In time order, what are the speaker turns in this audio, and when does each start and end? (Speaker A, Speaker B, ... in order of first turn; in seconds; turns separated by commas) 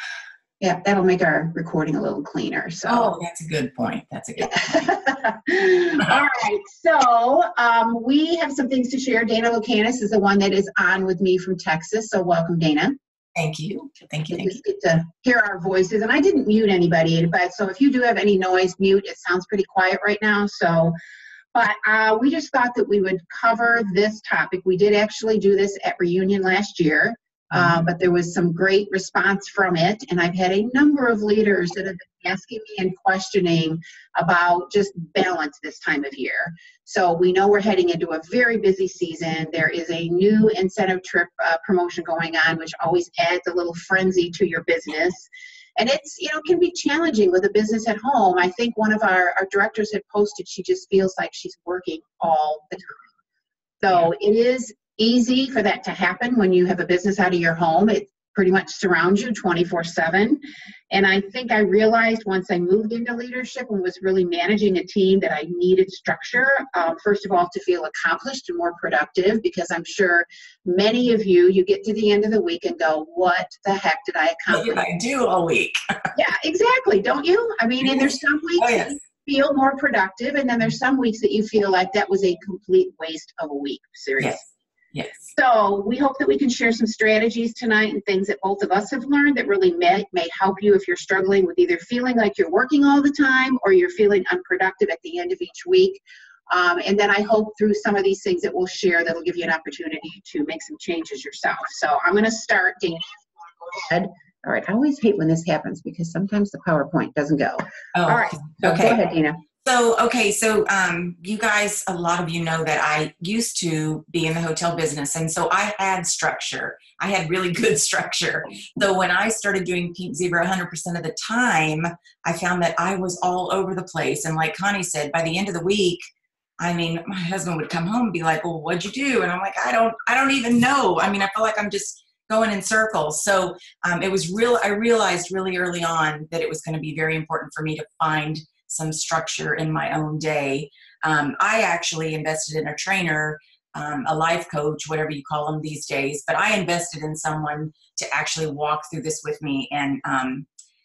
Speaker A: 0.6-3.1, Speaker B: 2.9-4.9, Speaker A: 4.4-13.0, Speaker B: 13.3-14.6, Speaker A: 14.3-20.9, Speaker A: 21.5-53.0, Speaker A: 53.8-74.8, Speaker B: 74.5-75.8, Speaker A: 76.2-84.4, Speaker B: 77.8-79.0, Speaker B: 84.9-85.3, Speaker A: 85.3-109.4, Speaker B: 107.9-109.0, Speaker B: 109.6-126.0, Speaker B: 126.6-150.5